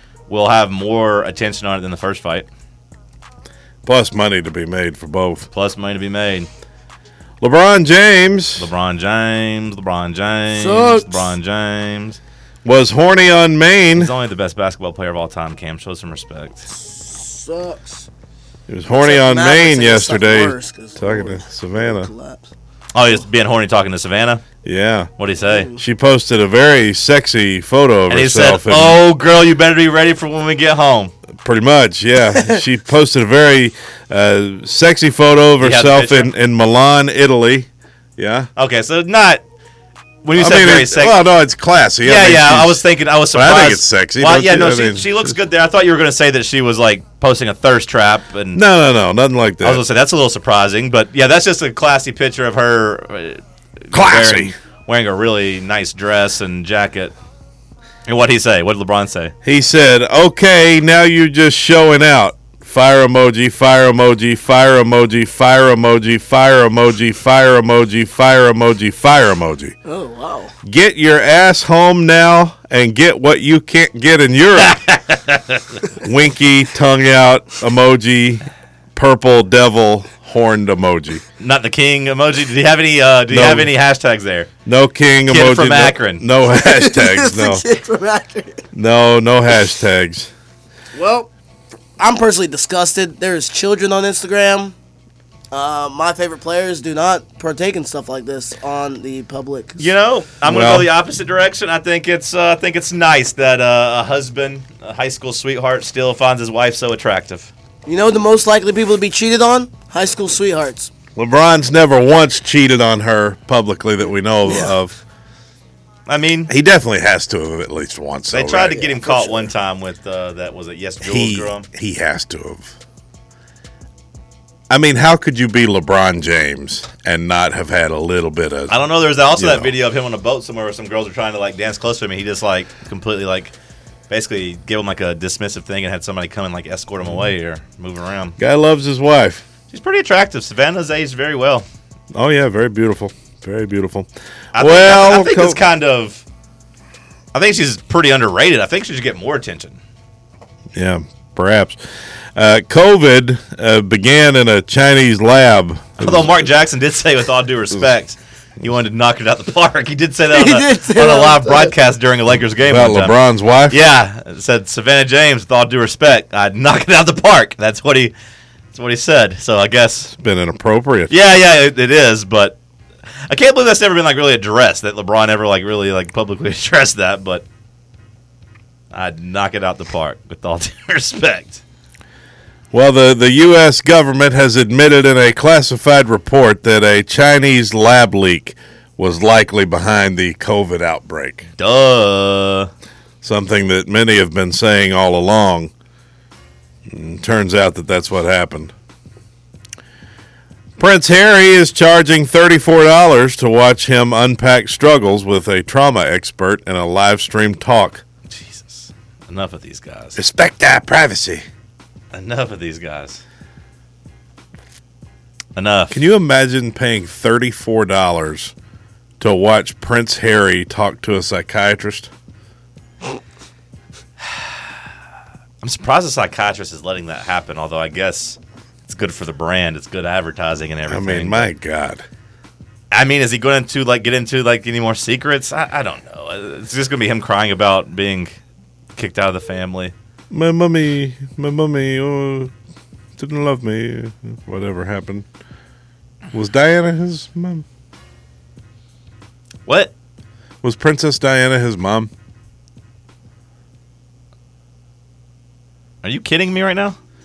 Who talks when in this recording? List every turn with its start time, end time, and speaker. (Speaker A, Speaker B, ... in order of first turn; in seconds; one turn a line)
Speaker A: 0.3-2.5
Speaker B: 3.8-5.5
Speaker A: 5.5-6.5
Speaker B: 7.4-8.7
Speaker A: 8.6-12.2
Speaker C: 10.5-11.3
Speaker B: 12.6-14.1
Speaker A: 13.9-16.7
Speaker C: 16.7-18.1
Speaker B: 18.7-22.1
Speaker C: 18.9-22.5
Speaker A: 22.9-24.4
Speaker B: 24.6-25.1
Speaker A: 25.2-25.7
Speaker C: 25.4-25.8
Speaker B: 25.8-29.0
Speaker A: 28.1-31.1
Speaker B: 31.4-38.5
Speaker A: 35.6-36.3
Speaker A: 38.5-39.4
Speaker A: 40.2-41.2
Speaker B: 40.3-45.4
Speaker A: 42.0-48.6
Speaker B: 48.5-49.8
Speaker A: 49.6-57.1
Speaker B: 53.9-54.5
Speaker A: 58.1-59.3
Speaker B: 59.4-69.7
Speaker C: 69.8-70.5
Speaker B: 70.6-74.8
Speaker A: 74.6-75.8
Speaker B: 76.0-81.2
Speaker A: 81.4-84.5
Speaker B: 83.3-83.7
Speaker B: 84.7-87.6
Speaker A: 85.3-86.2
Speaker C: 86.5-88.6
Speaker B: 88.7-90.3
Speaker C: 90.9-91.3
Speaker C: 92.0-94.7
Speaker C: 95.5-99.8
Speaker A: 99.8-107.5
Speaker B: 100.4-100.9
Speaker C: 107.8-110.9
Speaker B: 111.2-115.0
Speaker C: 114.4-114.7
Speaker A: 116.1-116.5
Speaker B: 116.5-118.8
Speaker A: 118.3-121.7
Speaker C: 118.7-119.5
Speaker B: 121.0-122.7
Speaker B: 124.7-128.8
Speaker A: 128.7-133.5
Speaker B: 129.3-129.7
Speaker A: 134.1-138.4
Speaker B: 138.4-139.4
Speaker A: 139.7-141.7
Speaker B: 142.1-145.6
Speaker A: 144.5-146.2
Speaker A: 147.3-149.8
Speaker B: 150.7-151.8
Speaker B: 152.3-156.3
Speaker A: 156.0-163.1
Speaker C: 160.3-161.7
Speaker B: 162.6-163.8
Speaker A: 163.7-168.1
Speaker A: 168.7-170.1
Speaker B: 170.1-171.1
Speaker A: 171.1-172.6
Speaker A: 173.2-177.4
Speaker A: 178.9-181.6
Speaker B: 182.7-191.5
Speaker A: 191.6-192.7
Speaker B: 193.2-195.7
Speaker B: 196.9-198.7
Speaker B: 200.8-208.0
Speaker A: 208.3-210.2
Speaker B: 210.2-211.4
Speaker A: 212.1-213.2
Speaker A: 215.5-216.0
Speaker B: 215.9-218.5
Speaker B: 219.2-222.1
Speaker A: 224.2-224.6
Speaker A: 225.6-231.5
Speaker B: 230.9-232.0
Speaker A: 232.9-238.3
Speaker A: 238.9-239.9
Speaker B: 240.3-242.5
Speaker B: 243.2-245.3
Speaker B: 246.3-247.6
Speaker A: 249.7-249.9
Speaker B: 250.6-252.1
Speaker A: 256.0-257.0